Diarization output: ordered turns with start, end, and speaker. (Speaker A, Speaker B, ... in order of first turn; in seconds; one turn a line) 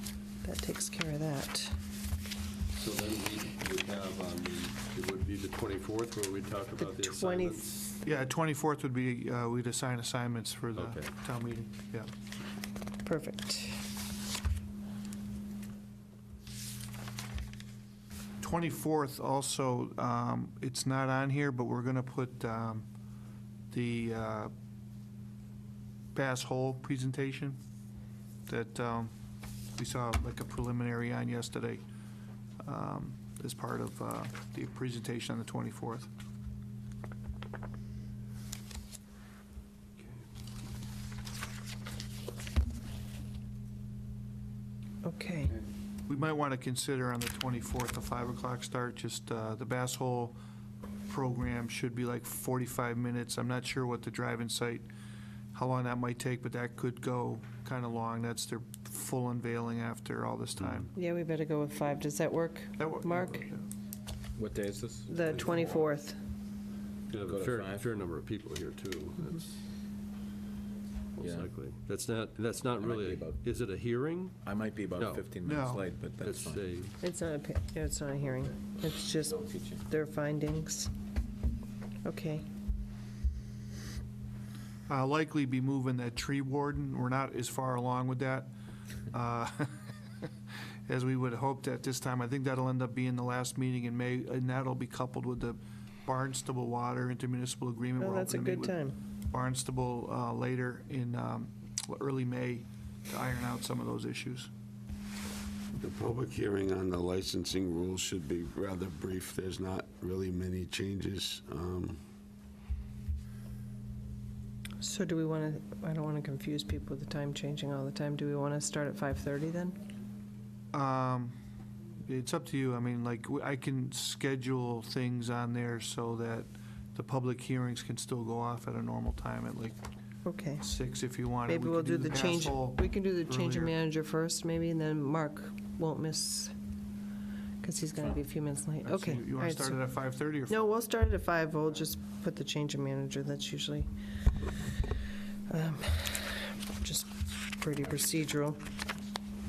Speaker A: 0.4-1.8
Speaker B: 2.7-7.8
Speaker A: 6.8-7.7
Speaker C: 8.0-12.1
Speaker B: 10.8-11.1
Speaker A: 13.1-13.8
Speaker C: 18.4-22.9
Speaker C: 23.7-24.5
Speaker C: 26.1-27.6
Speaker C: 28.5-29.1
Speaker C: 29.8-31.8
Speaker C: 32.6-36.1
Speaker A: 45.0-45.5
Speaker C: 46.1-50.4
Speaker C: 51.1-54.9
Speaker C: 55.5-60.9
Speaker B: 60.6-60.9
Speaker A: 61.0-63.5
Speaker C: 62.8-63.6
Speaker D: 64.4-65.8
Speaker A: 65.1-66.2
Speaker B: 67.1-69.6
Speaker D: 67.2-67.8
Speaker B: 71.2-74.4
Speaker D: 71.2-71.5
Speaker D: 72.8-73.4
Speaker D: 74.4-76.6
Speaker B: 75.0-75.3
Speaker C: 75.4-75.9
Speaker B: 76.2-77.0
Speaker A: 77.0-80.9
Speaker D: 79.4-79.8
Speaker A: 82.0-82.5
Speaker C: 84.9-88.5
Speaker C: 89.1-90.3
Speaker C: 90.9-98.8
Speaker A: 98.0-99.0
Speaker C: 99.3-104.5
Speaker E: 105.8-112.0
Speaker A: 114.8-119.8
Speaker C: 120.7-121.3
Speaker C: 122.1-129.8
Speaker A: 130.2-130.7
Speaker C: 130.6-133.7
Speaker A: 131.5-136.6
Speaker A: 137.6-139.8
Speaker C: 138.8-140.6
Speaker A: 140.5-143.9
Speaker A: 145.5-148.6